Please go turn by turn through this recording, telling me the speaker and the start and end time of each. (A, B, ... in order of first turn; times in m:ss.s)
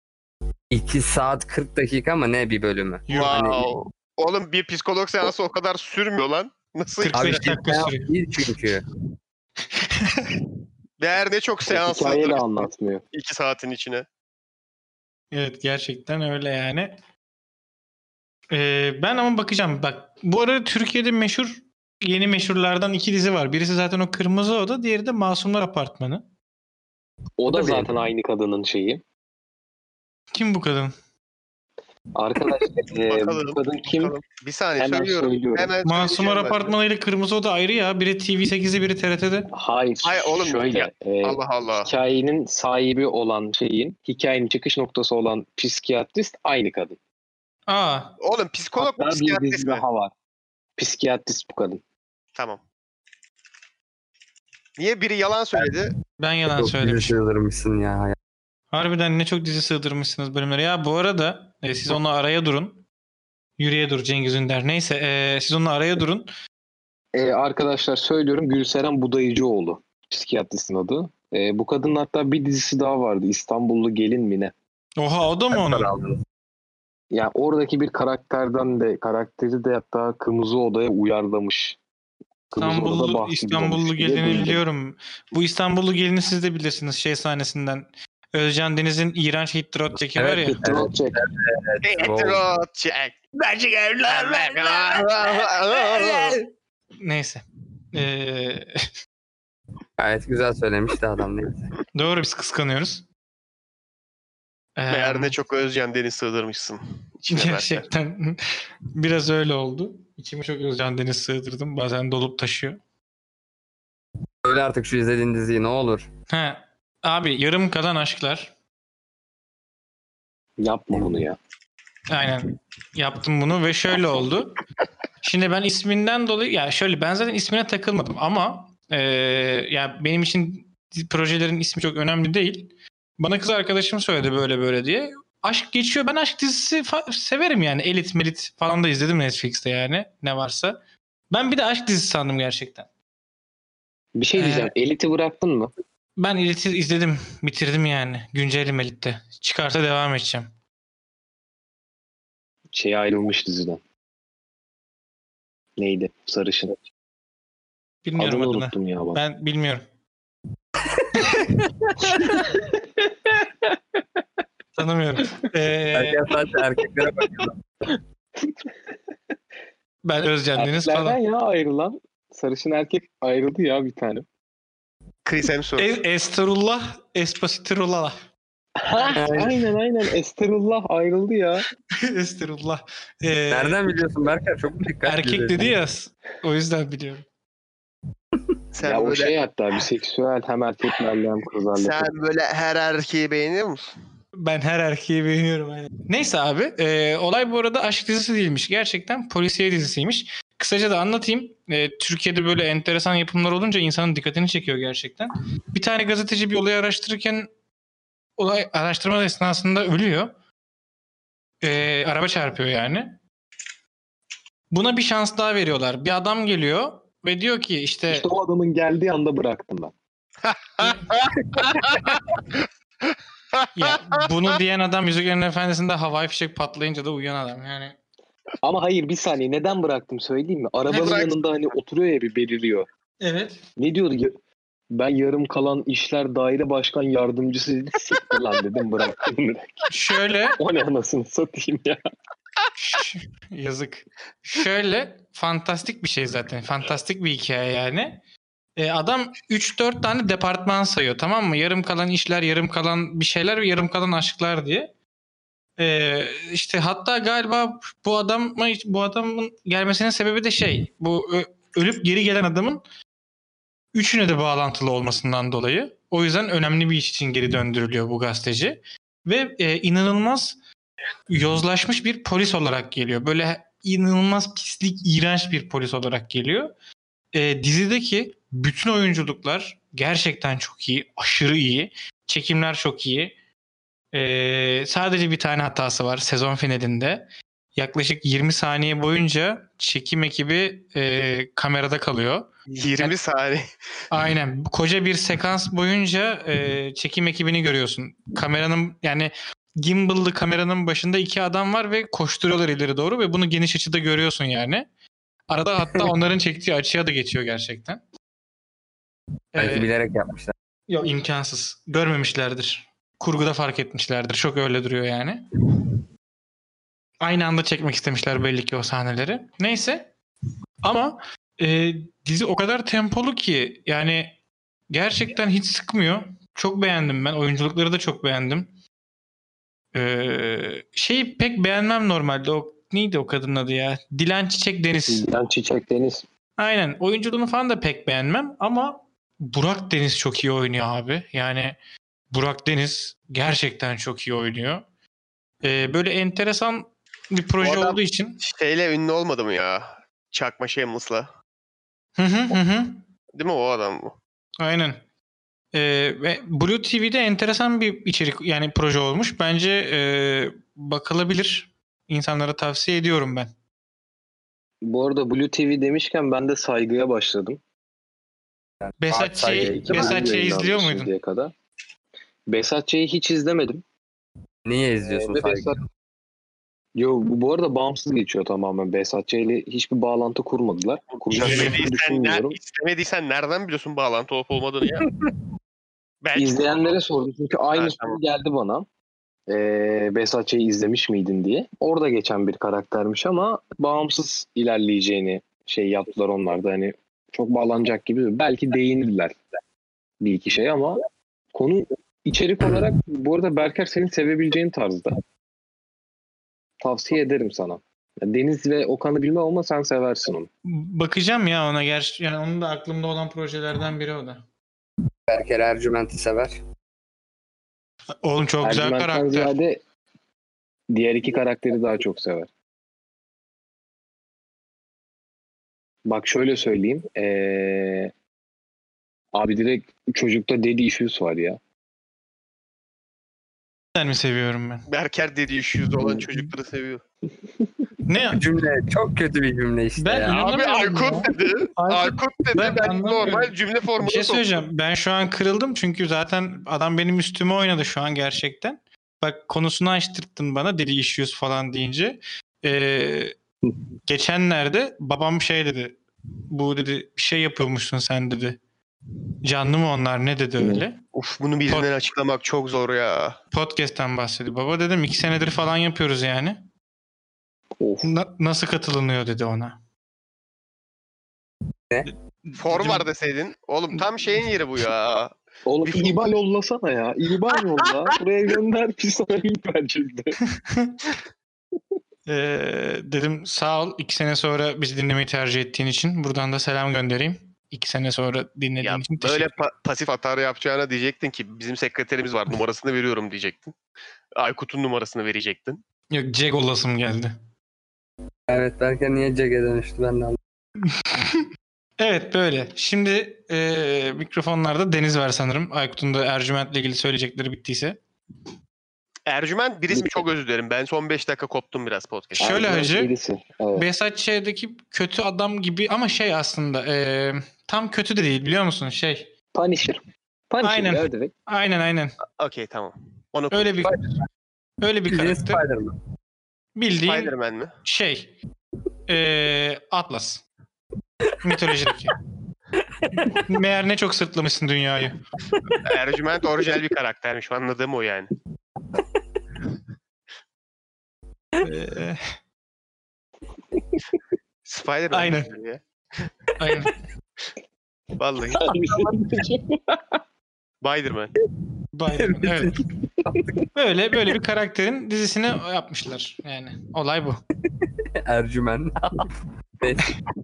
0:00.7-0:03.7 A
0:03.1-0:03.4 B
0:03.1-0:07.5 C
0:07.0-0:08.1 B
0:07.1-0:08.8 A
0:09.7-0:10.3 B
0:11.0-0:14.0 C
0:11.7-0:13.0 D
0:15.3-0:17.0 B
0:18.5-0:26.2 B
0:27.4-0:29.0 D
0:27.5-0:27.9 A
0:30.3-0:30.9 B
0:32.1-0:34.2 D
0:33.1-0:36.7 C
0:34.8-0:35.7 D
0:35.8-0:39.5 B
0:39.5-0:47.0 D
0:40.0-0:41.9 C
0:47.7-0:48.1 B
0:48.2-0:49.8 C
0:48.8-0:50.1 D
0:50.8-0:51.8 D
0:52.3-0:52.6 C
0:54.8-0:55.9 C
0:56.2-0:57.2 B
0:56.5-0:58.2 A
0:58.7-1:02.8 B
1:03.6-1:06.3 B
1:07.1-1:14.5 D
1:15.0-1:15.9 B
1:15.5-1:16.2 A
1:17.1-1:21.8 D
1:22.5-1:24.6 D
1:22.6-1:30.6 B
1:30.2-1:32.4 A
1:30.4-1:31.2 D
1:31.8-1:36.4 C
1:36.0-1:36.4 B
1:37.0-1:38.9 B
1:40.0-1:41.7 A
1:41.9-1:43.0 B
1:44.8-1:45.3 B
1:44.9-1:47.8 C
1:47.3-1:52.8 B
1:54.4-1:56.1 A
1:56.3-1:58.5 B
2:00.6-2:01.4 D
2:02.1-2:04.6 B
2:05.2-2:20.8 B
2:21.3-2:22.9 B
2:24.1-2:25.7 D
2:24.4-2:24.7 B
2:26.2-2:30.5 B
2:32.7-2:33.8 D
2:35.8-2:36.8 D
2:38.0-2:39.8 B
2:38.2-2:39.2 D
2:42.0-2:43.7 D
2:44.7-2:46.2 B
2:45.9-2:47.6 A
2:48.4-2:48.7 D
2:50.0-2:51.2 B
2:50.5-2:54.2 D
2:55.2-2:55.9 C
2:55.8-2:58.2 B
2:58.8-3:01.6 D
2:59.0-2:59.3 B
2:59.1-2:59.5 A
3:01.9-3:04.0 B
3:03.5-3:05.7 A
3:05.0-3:07.2 B
3:08.7-3:09.4 C
3:08.8-3:12.1 D
3:11.7-3:13.9 C
3:14.3-3:27.5 B
3:28.4-3:30.3 B
3:31.6-3:33.2 B
3:34.7-3:38.3 B
3:38.1-3:39.9 D
3:40.4-3:44.5 C
3:43.7-3:48.0 B
3:48.6-3:52.9 D
3:50.9-3:51.2 B
3:50.9-3:51.3 C
3:53.2-3:53.6 B
3:53.8-3:54.4 D
3:54.9-3:59.9 D
3:59.9-4:00.6 B
4:00.6-4:02.0 D
4:02.8-4:08.2 B
4:08.8-4:14.9 B
4:15.8-4:22.8 B
4:23.9-4:30.6 B
4:31.3-4:36.7 B
4:37.3-4:43.3 B
4:44.1-4:53.1 B
4:52.8-4:53.6 C
4:54.1-5:04.9 B
5:05.5-5:08.0 B
5:09.5-5:09.9 B
5:09.6-5:10.5 A
5:10.9-5:15.4 B
5:17.2-5:20.1 B
5:20.8-5:24.4 B
5:24.9-5:28.7 B
5:29.9-5:35.2 B
5:35.1-5:36.2 D
5:36.6-5:41.8 B
5:42.3-5:44.8 B
5:45.6-5:48.4 B
5:47.6-5:51.3 C
5:52.2-5:53.0 B
5:53.4-5:54.2 C
5:54.6-5:55.0 B
5:55.7-6:03.5 B
6:04.8-6:07.6 D
6:08.8-6:10.2 A
6:09.0-6:11.1 B
6:09.5-6:11.5 D
6:12.5-6:13.8 D
6:14.6-6:15.7 A
6:15.0-6:15.8 D
6:17.0-6:22.6 D
6:21.2-6:25.1 C
6:21.4-6:21.8 B
6:25.1-6:25.3 A
6:26.2-6:27.0 C
6:26.3-6:28.8 D
6:27.7-6:28.2 C
6:29.5-6:39.4 D
6:40.2-6:41.0 D
6:41.5-6:45.2 D
6:46.8-6:50.5 D
6:50.6-6:54.4 B
6:55.3-6:56.6 A
6:58.2-6:59.5 B
6:58.6-6:59.8 D
7:00.9-7:02.5 D
7:06.0-7:08.1 D
7:09.3-7:11.6 D
7:13.9-7:14.8 B
7:14.9-7:17.0 C
7:18.0-7:18.4 B
7:18.3-7:20.4 A
7:20.0-7:33.4 B
7:20.3-7:24.4 C
7:34.0-7:38.6 B
7:39.4-7:41.0 B
7:41.1-7:43.4 C
7:43.5-7:46.6 B
7:47.8-7:48.1 D
7:48.0-7:49.8 B
7:52.0-7:53.0 B
7:52.6-7:55.3 C
7:55.6-8:00.4 D
7:55.8-7:56.2 C
8:00.5-8:01.0 B
8:02.2-8:09.5 B
8:08.8-8:13.7 C
8:14.4-8:15.8 C
8:16.1-8:17.4 B
8:18.5-8:20.4 A
8:20.8-8:21.4 B
8:22.0-8:28.0 B
8:29.2-8:32.6 C
8:29.9-8:30.3 D
8:32.4-8:33.9 D
8:32.4-8:33.1 B
8:33.8-8:39.3 B
8:39.5-8:41.3 D
8:40.6-8:42.2 B
8:42.4-8:43.8 C
8:43.5-8:44.1 B
8:44.8-8:45.6 B
8:45.1-8:45.9 A
8:46.8-8:47.3 B
8:47.0-8:47.7 C
8:47.8-8:48.3 B
8:49.1-8:50.4 B
8:51.4-8:52.2 B
8:53.0-8:53.4 A
8:53.2-8:55.2 B
8:55.8-8:58.3 C
9:01.6-9:02.3 B
9:04.6-9:06.3 C
9:05.1-9:05.5 B
9:06.6-9:06.9 B
9:08.2-9:08.7 C
9:08.5-9:10.0 D
9:10.8-9:11.3 C
9:11.9-9:12.8 B
9:12.2-9:13.6 A
9:13.7-9:17.4 B
9:17.8-9:20.1 A